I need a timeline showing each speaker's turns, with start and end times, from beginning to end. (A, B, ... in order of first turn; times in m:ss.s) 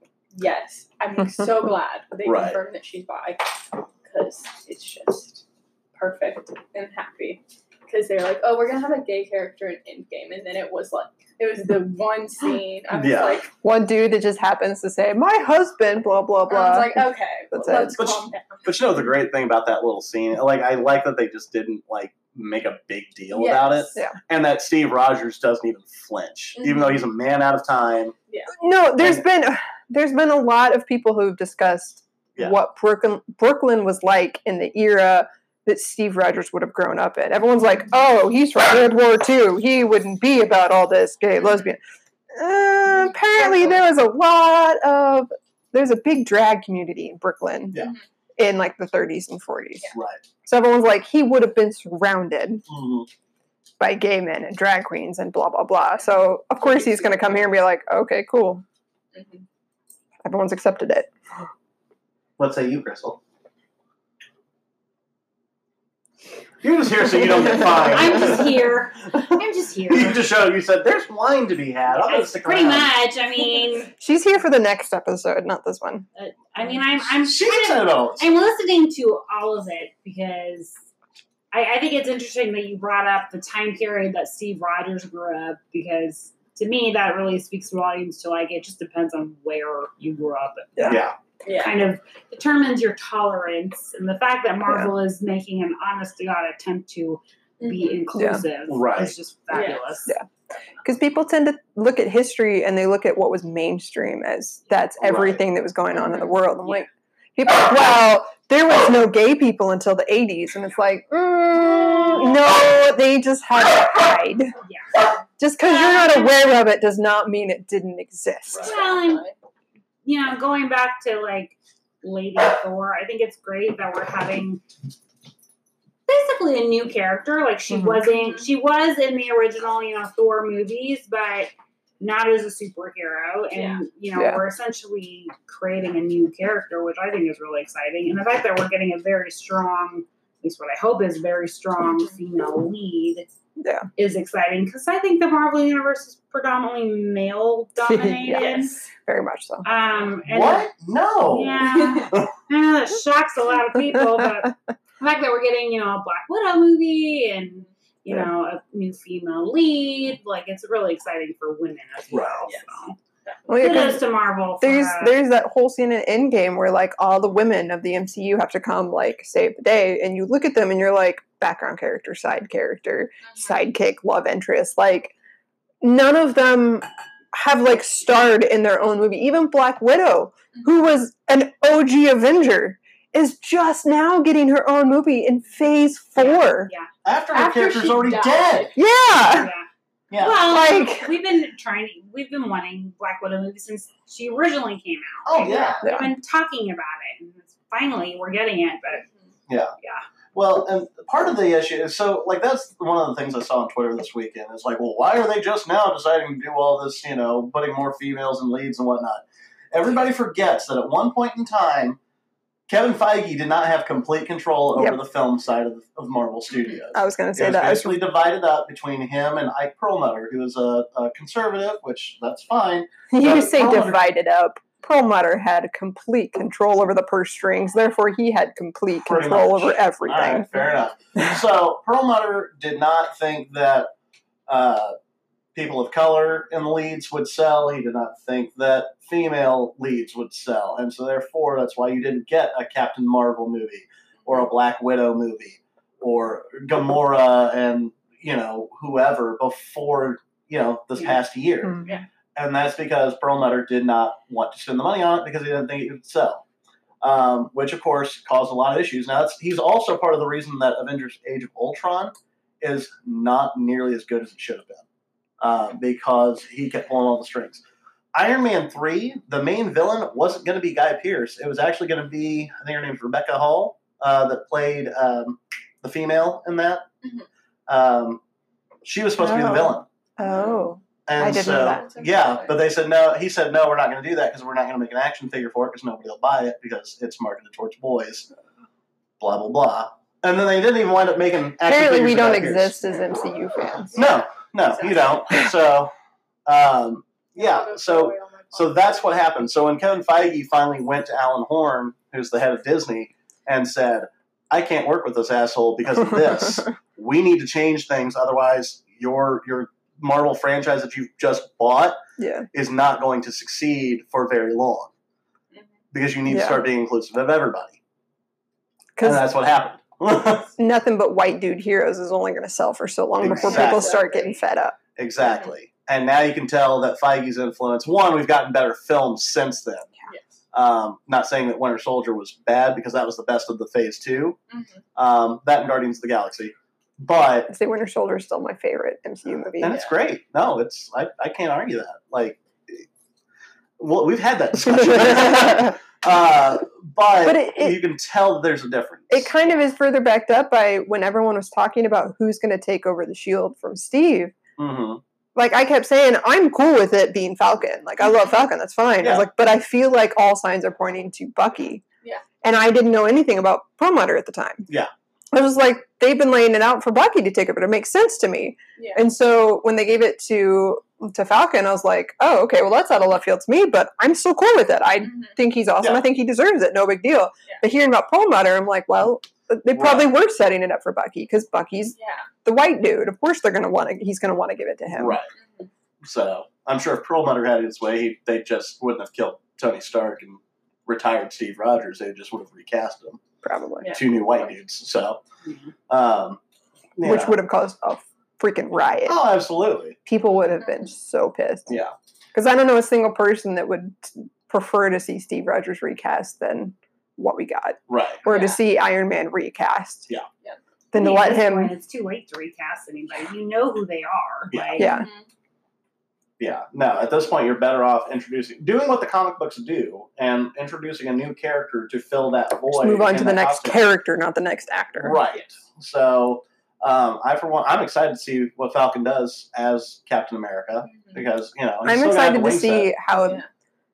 0:00.3-0:13.5 A
0:02.2-0:02.6 B
0:12.9-0:13.4 B
0:13.6-0:18.0 C
0:16.5-0:18.8 A
0:18.0-0:28.2 B
0:23.3-0:24.0 A
0:26.6-0:27.0 A
0:28.5-0:41.8 C
0:42.3-0:47.9 C
0:47.8-0:48.0 A
0:48.4-0:49.9 C
0:49.9-0:50.2 B
0:50.4-0:52.6 C
0:52.7-0:53.1 B
0:53.8-0:58.6 C
0:59.1-0:59.4 A
1:00.2-1:01.1 C
1:02.4-1:03.2 B
1:06.6-1:13.0 B
1:07.5-1:10.2 D
1:11.9-1:13.9 D
1:14.0-1:16.1 C
1:16.2-1:20.8 D
1:17.2-1:18.3 B
1:21.5-1:40.1 D
1:30.8-1:31.2 B
1:31.4-1:31.8 A
1:37.6-1:38.0 A
1:38.2-1:38.4 C
1:38.7-1:39.1 B
1:39.5-1:39.8 A
1:40.8-1:54.6 C
1:45.0-1:45.4 B
1:54.6-1:55.0 D
1:55.4-1:58.7 C
1:55.7-1:56.3 D
1:58.6-1:59.4 A
1:58.6-1:59.2 D
2:00.0-2:04.6 D
2:06.1-2:23.3 D
2:07.7-2:08.0 C
2:13.5-2:13.8 A
2:14.2-2:14.4 C
2:23.6-2:23.9 C
2:24.0-2:28.7 D
2:27.8-2:29.7 C
2:29.6-2:30.7 D
2:30.3-2:32.3 B
2:31.2-2:43.0 D
2:42.1-2:42.5 B
2:43.2-2:43.8 A
2:43.5-2:44.1 C
2:43.5-2:45.2 D
2:44.6-2:55.1 C
2:53.2-2:53.6 A
2:55.8-3:06.7 C
3:06.2-3:06.9 D
3:07.0-3:08.7 B
3:07.3-3:08.8 A
3:08.8-3:09.5 C
3:09.1-3:19.0 D
3:10.1-3:10.5 B
3:10.4-3:11.1 C
3:15.3-3:15.8 B
3:15.4-3:15.7 A
3:15.8-3:16.1 C
3:19.5-3:19.7 B
3:20.3-3:32.0 B
3:32.7-3:44.0 B
3:36.9-3:38.0 C
3:43.1-3:50.6 C
3:49.0-3:53.9 B
3:54.5-3:55.0 B
3:55.5-4:16.4 B
4:17.0-4:24.8 B
4:25.4-4:27.6 B
4:28.1-4:36.9 B
4:37.7-4:38.2 B
4:38.8-4:39.9 B
4:39.2-4:41.8 C
4:40.2-4:40.6 A
4:41.1-4:48.3 B
4:41.5-4:42.6 A
4:49.2-4:52.7 B
4:51.6-4:54.0 C
4:53.9-4:55.2 A
4:54.0-4:55.9 B
4:56.5-5:12.0 B
4:57.4-4:59.1 A
5:12.2-5:12.5 C
5:12.5-5:14.9 B
5:15.9-5:17.8 B
5:16.3-5:16.6 C
5:19.0-5:19.3 C
5:19.0-5:20.5 B
5:20.6-5:24.8 C
5:23.2-5:24.0 B
5:23.4-5:24.4 A
5:25.0-5:29.9 B
5:25.2-5:25.5 A
5:30.5-5:34.4 B
5:34.5-5:34.8 A
5:35.0-5:37.5 B
5:37.5-5:39.8 C
5:39.6-5:42.8 B
5:43.8-5:49.3 B
5:44.7-5:45.7 C
5:47.2-5:47.8 C
5:49.1-5:54.3 C
5:54.6-5:55.0 B
5:55.4-6:01.8 C
5:59.0-5:59.3 B
6:02.4-6:04.7 C
6:05.3-6:25.2 C
6:08.8-6:09.0 A
6:15.0-6:15.4 A
6:15.8-6:16.1 B
6:19.7-6:20.1 B
6:22.0-6:22.3 A
6:25.0-6:25.3 B
6:25.4-6:25.7 A
6:26.0-6:33.2 B
6:33.4-6:33.9 C
6:33.9-6:35.2 B
6:35.5-6:35.7 D
6:35.9-6:36.4 B
6:37.0-6:37.4 B
6:37.0-6:39.2 C
6:39.1-6:40.0 B
6:40.1-6:41.7 C
6:41.7-6:41.9 B
6:42.3-6:50.1 C
6:47.9-6:48.2 B
6:48.2-6:48.6 A
6:50.9-6:51.7 C
6:50.9-6:54.9 D
6:54.5-6:54.8 B
6:54.8-6:55.1 C
6:54.8-6:55.3 A
6:56.4-7:03.8 B
7:02.7-7:05.2 C
7:05.0-7:12.9 B
7:10.9-7:11.2 A
7:11.8-7:13.4 C